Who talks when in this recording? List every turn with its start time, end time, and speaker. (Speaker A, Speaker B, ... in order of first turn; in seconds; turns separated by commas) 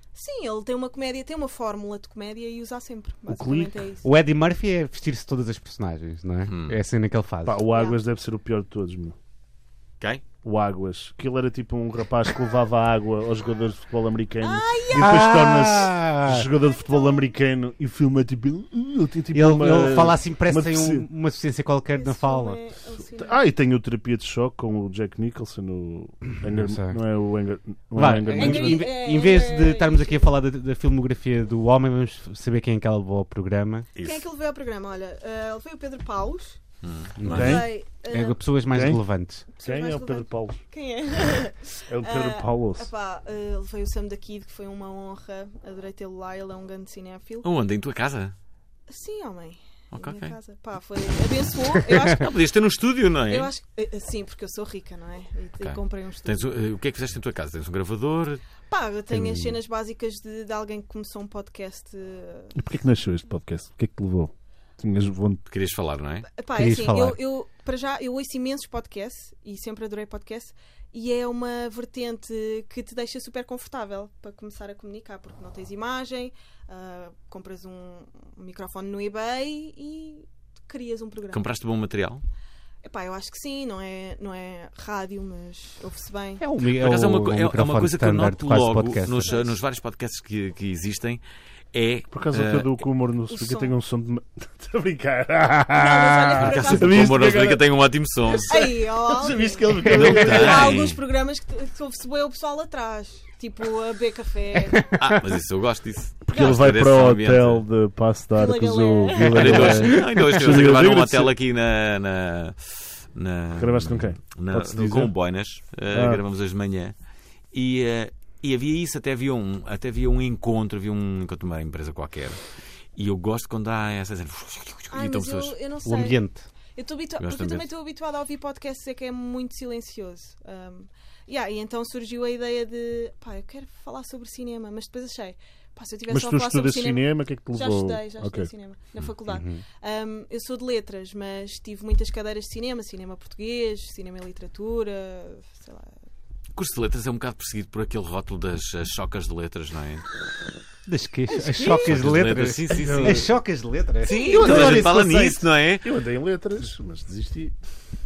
Speaker A: 0.1-4.1, Speaker B: 3.3-3.7, Speaker C: 4.0-7.6, Speaker D: 6.5-6.8, Speaker B: 7.4-9.2, Speaker A: 7.7-8.0, Speaker B: 10.4-21.1, Speaker A: 14.4-15.5, Speaker C: 14.9-16.4, Speaker A: 16.7-17.3, Speaker C: 19.3-22.6, Speaker A: 22.0-23.4, Speaker B: 23.2-28.9, Speaker C: 26.5-27.1, Speaker C: 27.9-33.9, Speaker A: 28.4-30.3, Speaker D: 33.9-34.2, Speaker A: 34.0-36.6, Speaker D: 36.8-37.6, Speaker C: 37.2-39.5, Speaker B: 37.3-37.7, Speaker A: 37.3-38.4, Speaker B: 38.7-40.6, Speaker A: 39.5-47.5, Speaker B: 41.9-42.9, Speaker D: 47.4-48.3, Speaker A: 48.9-52.3, Speaker D: 49.9-50.4, Speaker D: 52.0-53.5, Speaker A: 53.3-56.6, Speaker D: 55.6-58.4, Speaker A: 58.7-62.6, Speaker C: 59.1-59.6, Speaker B: 62.5-65.4, Speaker D: 65.5-66.3, Speaker A: 66.3-81.5, Speaker C: 66.5-67.2, Speaker D: 81.3-82.2, Speaker A: 82.8-86.4, Speaker C: 86.4-89.3, Speaker D: 86.7-91.2, Speaker A: 89.2-89.5, Speaker D: 91.7-92.7, Speaker B: 92.1-97.7, Speaker A: 93.3-93.7, Speaker A: 95.7-97.2, Speaker D: 96.4-98.7, Speaker B: 98.3-100.8, Speaker A: 98.5-105.0, Speaker D: 99.8-101.0, Speaker D: 104.9-107.6, Speaker B: 106.2-111.3, Speaker A: 106.3-106.6, Speaker A: 108.3-109.9, Speaker D: 109.3-116.9, Speaker B: 113.5-115.1, Speaker B: 115.9-116.2, Speaker D: 117.5-122.4, Speaker D: 123.0-125.5, Speaker A: 124.9-145.9, Speaker C: 125.8-126.5, Speaker D: 127.2-127.7, Speaker B: 136.1-138.5, Speaker C: 139.3-139.6, Speaker D: 146.5-150.1, Speaker C: 150.9-155.4, Speaker A: 151.3-151.9, Speaker D: 151.7-153.3, Speaker B: 152.8-153.4, Speaker D: 154.1-155.9, Speaker A: 154.1-154.6, Speaker B: 154.3-155.3, Speaker B: 155.8-157.6